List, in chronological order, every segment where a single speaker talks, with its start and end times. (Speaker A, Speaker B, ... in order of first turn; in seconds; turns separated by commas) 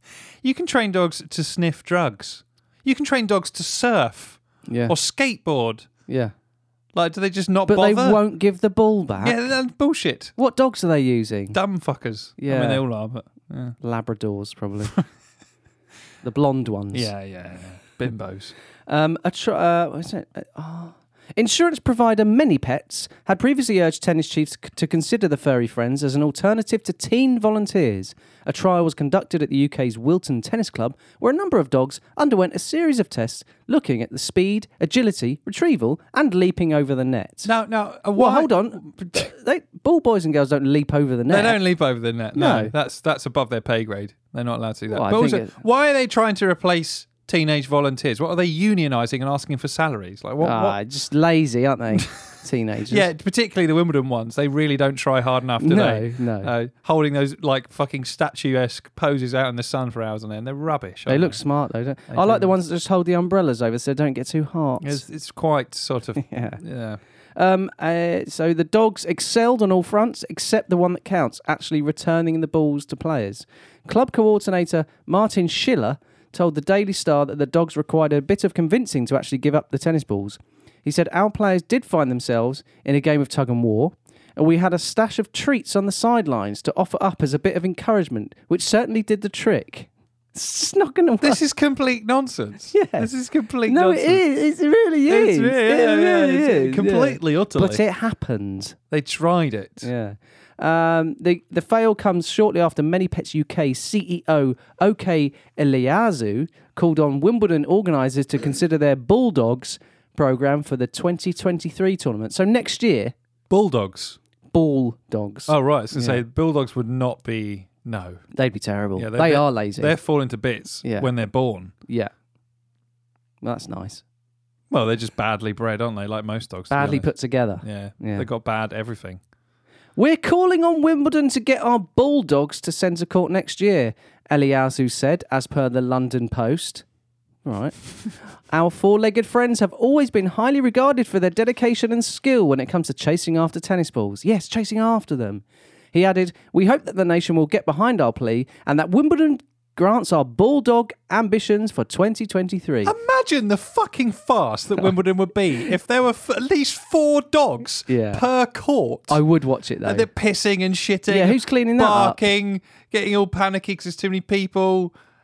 Speaker A: 0.4-5.9, Speaker B: 4.7-5.0, Speaker B: 6.1-6.3, Speaker A: 6.9-8.2, Speaker B: 7.7-9.5, Speaker A: 9.2-10.3, Speaker B: 10.4-11.6, Speaker A: 11.5-13.8, Speaker B: 12.4-12.8, Speaker B: 13.8-14.9, Speaker B: 16.2-17.1, Speaker A: 16.9-18.5, Speaker B: 18.9-37.5, Speaker A: 37.5-39.3, Speaker B: 38.1-41.6, Speaker A: 41.3-50.8, Speaker B: 42.3-42.7, Speaker B: 44.9-45.5, Speaker B: 50.4-53.1, Speaker A: 52.9-61.4, Speaker B: 55.6-56.5, Speaker B: 61.1-65.0, Speaker A: 62.1-62.5, Speaker A: 64.8-67.0, Speaker B: 66.2-66.6, Speaker B: 67.3-91.4, Speaker A: 91.2-94.2, Speaker B: 92.7-93.1, Speaker B: 93.7-98.8, Speaker A: 95.1-97.8, Speaker A: 98.9-99.9, Speaker B: 99.8-113.1, Speaker A: 113.5-114.2, Speaker B: 114.5-116.2, Speaker A: 115.5-118.2, Speaker B: 118.3-120.0, Speaker A: 119.0-121.7, Speaker B: 120.8-121.1, Speaker B: 123.4-124.0, Speaker A: 124.7-127.1, Speaker B: 126.7-128.3, Speaker A: 127.6-129.2, Speaker B: 130.0-136.8, Speaker B: 137.4-137.9, Speaker B: 138.5-152.9, Speaker A: 152.8-159.2, Speaker B: 157.9-158.2, Speaker B: 159.1-160.1, Speaker A: 159.8-164.9, Speaker B: 161.1-162.2